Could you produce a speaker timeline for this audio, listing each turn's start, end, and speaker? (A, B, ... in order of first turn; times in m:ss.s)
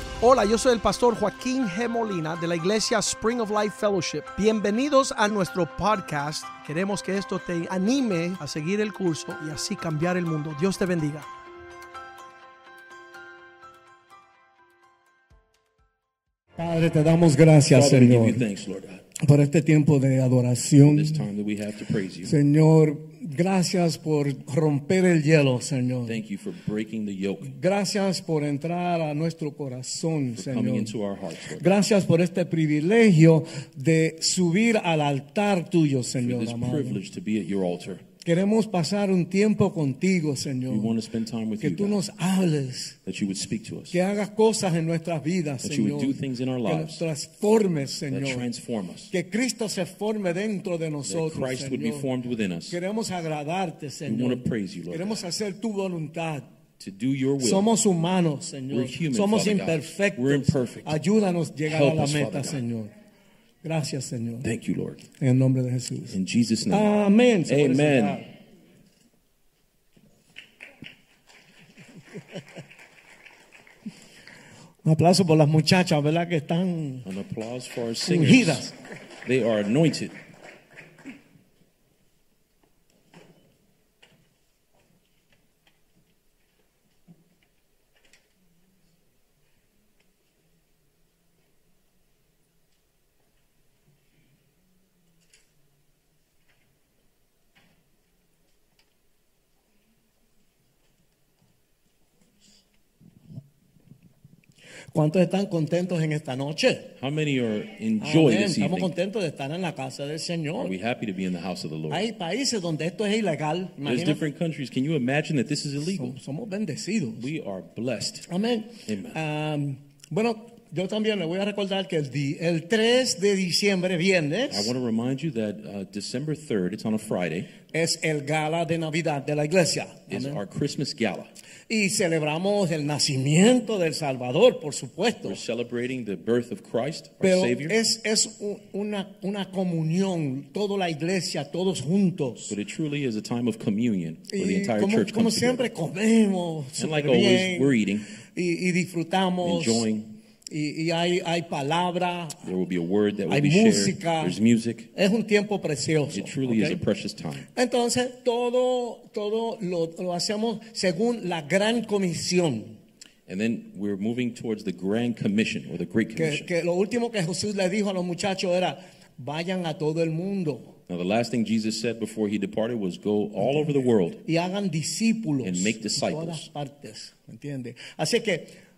0:00.2-0:11.3 A
0:16.6-0:18.4 B
0:17.7-0:19.0 C
0:19.2-0:21.2 B
0:20.8-0:22.4 C
0:22.2-0:26.2 B
0:26.1-0:27.5 C
0:27.4-0:31.0 B
0:30.3-0:31.8 C
0:31.6-0:37.0 B
0:36.2-0:38.0 C
0:38.2-0:41.0 B
0:40.7-0:42.0 C
0:41.6-0:43.0 B
0:43.0-0:44.0 C
0:43.9-0:48.5 B
0:45.6-0:47.0 C
0:48.1-0:49.1 C
0:49.1-0:52.1 B
0:51.0-0:52.8 C
0:52.7-0:56.5 B
0:54.0-0:55.2 C
0:56.8-0:57.7 C
0:57.4-1:02.9 B
0:58.7-1:01.0 C
1:01.6-1:02.6 C
1:03.6-1:04.5 B
1:04.4-1:05.1 C
1:05.2-1:06.1 B
1:06.1-1:06.9 C
1:06.7-1:08.3 B
1:07.4-1:08.2 C
1:14.8-1:17.1 B
1:17.0-1:18.7 C
1:18.0-1:18.8 B
1:19.2-1:20.1 C
1:44.9-1:46.9 B
1:47.0-1:48.9 C
1:48.0-1:50.7 B
1:50.6-1:52.0 C
1:51.9-1:54.2 B
1:53.8-1:56.2 C
1:55.8-1:57.3 B
1:57.2-1:58.3 C
1:58.3-2:04.7 B
1:58.8-1:59.2 C
2:04.5-2:07.5 C
2:07.7-2:10.4 B
2:10.1-2:11.3 C
2:11.7-2:15.4 B
2:15.2-2:17.8 C
2:17.2-2:22.5 B
2:22.5-2:25.7 C
2:24.3-2:27.8 B
2:26.8-2:28.0 C
2:28.3-2:29.8 B
2:29.4-2:30.1 C
2:30.5-2:32.5 B
2:32.4-2:34.9 C
2:33.3-2:34.4 B
2:34.9-2:36.8 B
2:36.1-2:37.5 C
2:37.5-2:42.8 B
2:43.3-2:46.5 C
2:46.2-2:50.7 B
2:50.9-2:54.2 C
2:53.4-2:58.6 B
2:55.4-2:56.5 C